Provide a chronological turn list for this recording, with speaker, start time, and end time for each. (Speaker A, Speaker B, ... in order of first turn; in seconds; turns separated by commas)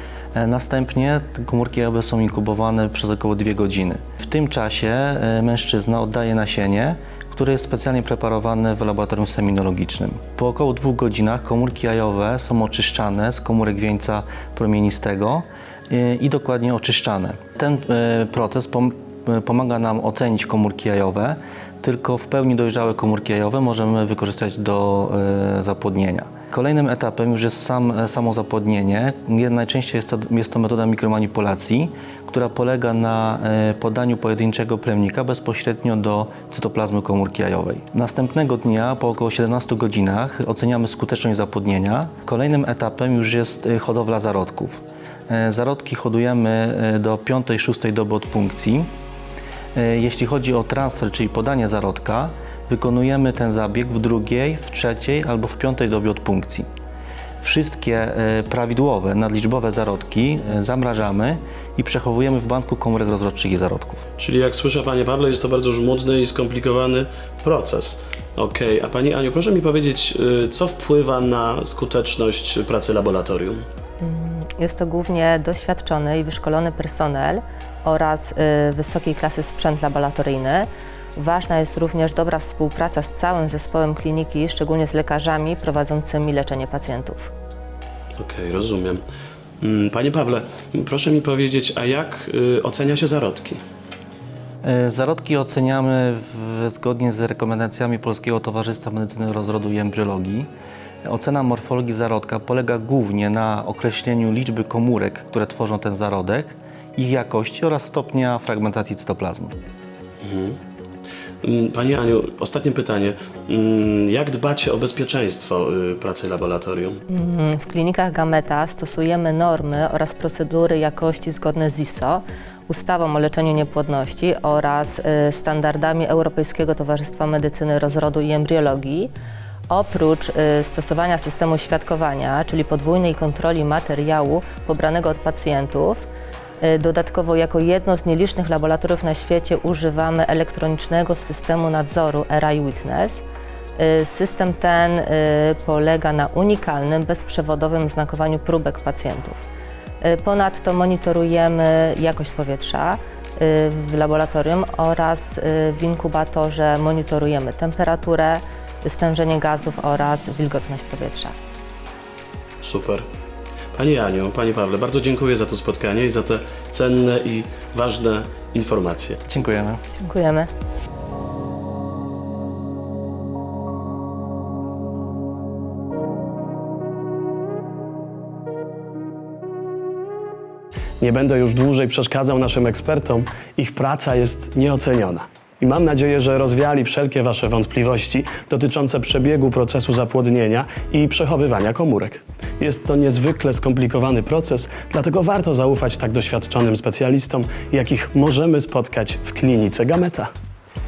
Speaker A: 0.3-48.9, Speaker A: 49.8-56.7, Speaker A: 57.4-64.0, Speaker B: 64.2-73.6, Speaker C: 74.0-87.3, Speaker B: 88.2-89.0, Speaker B: 89.6-93.6, Speaker A: 94.6-100.5, Speaker A: 101.0-109.5, Speaker B: 110.2-110.6, Speaker B: 111.4-117.0, Speaker C: 117.1-129.1, Speaker C: 129.7-136.1, Speaker C: 136.6-143.2, Speaker C: 143.8-149.5, Speaker C: 150.0-161.4, Speaker B: 162.6-163.1, Speaker B: 163.7-169.2, Speaker A: 169.3-169.8, Speaker C: 169.9-170.5, Speaker B: 181.0-200.3